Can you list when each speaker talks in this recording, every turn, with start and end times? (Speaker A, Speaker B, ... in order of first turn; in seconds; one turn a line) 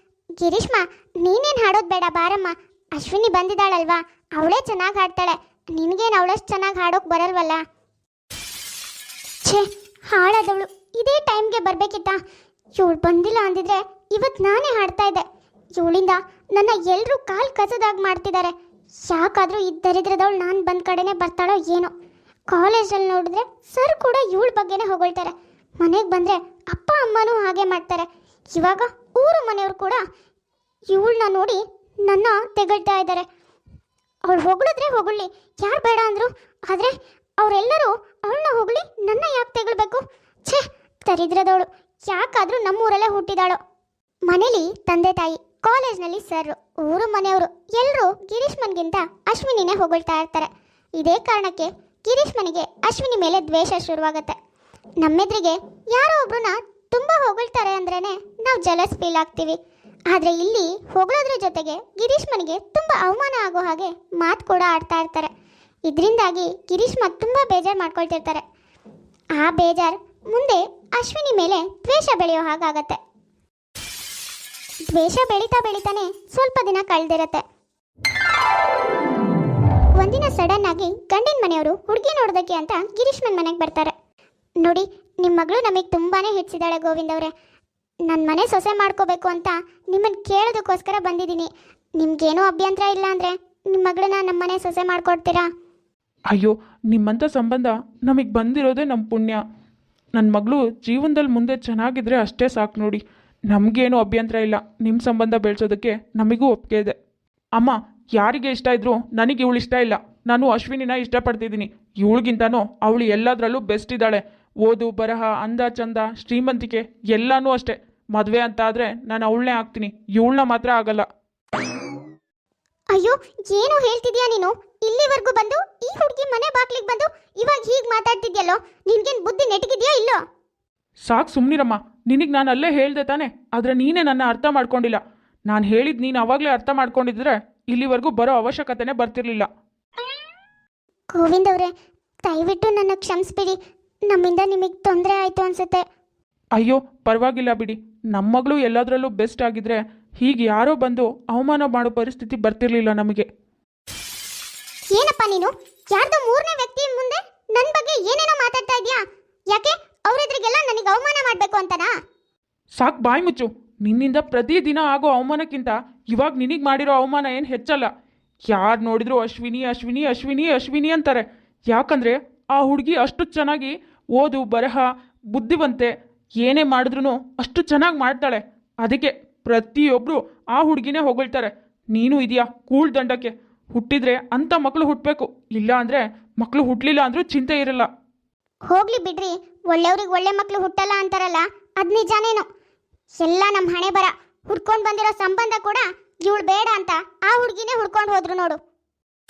Speaker A: 0.4-7.6
Speaker A: 9.4-12.2
Speaker A: 12.8-15.2
Speaker A: 15.8-18.5
Speaker A: 19.1-21.9
Speaker A: 22.5-30.0
Speaker A: 30.9-33.2
Speaker A: 34.3-43.6
Speaker A: 44.3-54.4
Speaker A: 55.0-59.6
Speaker A: 60.1-65.3
Speaker A: 65.9-68.4
Speaker A: 69.4-73.0
Speaker A: 74.9-77.4
Speaker A: 80.0-83.9
Speaker A: 84.6-87.3
Speaker A: 88.1-95.5
Speaker B: 96.3-99.4
Speaker B: 100.2-107.0
Speaker B: 107.6-121.1
Speaker A: 122.9-130.2
Speaker B: 131.1-139.5
Speaker A: 141.1-141.7
Speaker A: 142.3-143.6
Speaker A: 144.1-145.8
Speaker B: 146.6-153.3
Speaker A: 154.9-161.9
Speaker B: 162.8-167.9
Speaker B: 168.5-187.9
Speaker A: 188.7-192.5
Speaker A: 193.2-198.6